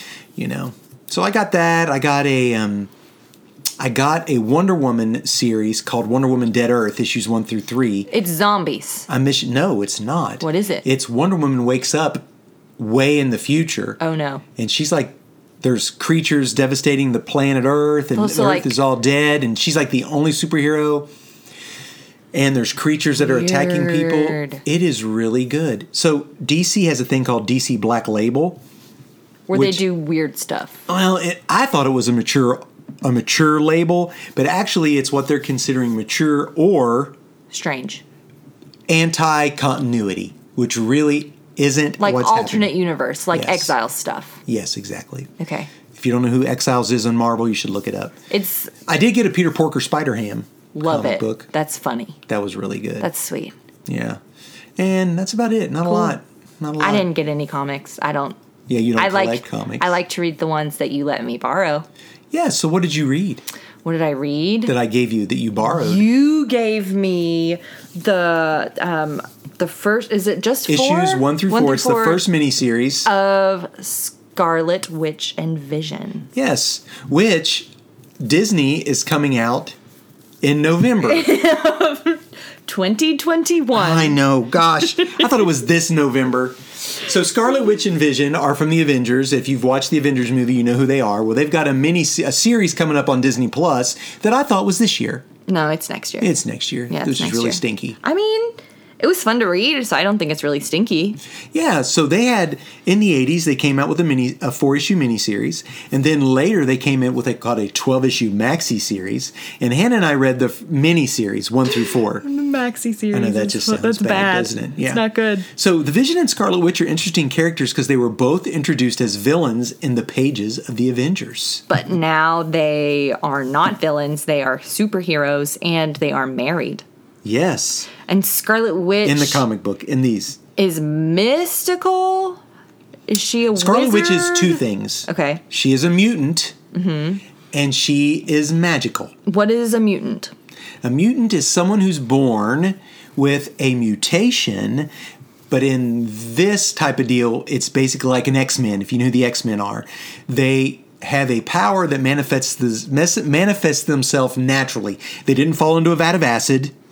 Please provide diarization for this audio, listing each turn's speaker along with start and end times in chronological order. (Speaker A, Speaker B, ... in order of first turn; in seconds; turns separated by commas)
Speaker A: 0.3-2.9, Speaker A: 3.8-8.1, Speaker B: 8.1-9.1, Speaker A: 9.1-12.2, Speaker B: 10.4-10.8, Speaker A: 12.8-14.0, Speaker B: 14.0-14.4, Speaker A: 14.6-21.1, Speaker B: 18.1-18.8, Speaker A: 22.3-28.6, Speaker B: 23.2-24.6, Speaker B: 29.5-30.8, Speaker A: 29.5-29.8, Speaker A: 30.9-37.1, Speaker B: 37.5-38.0, Speaker A: 38.9-42.7, Speaker B: 42.0-44.4, Speaker A: 43.3-43.7, Speaker A: 44.5-45.3, Speaker B: 45.4-45.7, Speaker A: 45.9-48.1, Speaker B: 48.3-48.7, Speaker A: 48.9-51.5, Speaker B: 50.7-52.2, Speaker A: 52.3-53.1, Speaker B: 53.0-53.5, Speaker A: 53.9-54.2, Speaker A: 54.8-57.1, Speaker B: 55.9-56.1, Speaker B: 56.8-58.4, Speaker A: 58.7-59.9, Speaker B: 59.0-61.9, Speaker A: 62.3-63.4, Speaker B: 63.8-64.7, Speaker A: 64.7-66.0, Speaker B: 65.7-72.2, Speaker A: 70.7-73.1, Speaker B: 73.0-76.3, Speaker A: 76.3-77.7, Speaker A: 78.2-79.7, Speaker A: 80.4-81.3, Speaker B: 81.0-84.2, Speaker A: 83.7-95.2, Speaker B: 84.8-85.4, Speaker B: 95.5-96.3, Speaker A: 96.2-98.0, Speaker B: 96.9-101.2, Speaker A: 101.5-112.2, Speaker B: 112.2-115.5, Speaker A: 113.1-121.6, Speaker B: 121.7-126.8, Speaker A: 127.2-127.9, Speaker B: 128.0-129.4, Speaker A: 129.0-130.4, Speaker B: 130.6-132.4, Speaker B: 133.1-135.4, Speaker A: 133.5-136.6, Speaker B: 136.7-137.2, Speaker A: 137.5-139.1, Speaker B: 139.2-140.3, Speaker A: 140.8-144.9, Speaker A: 145.5-156.7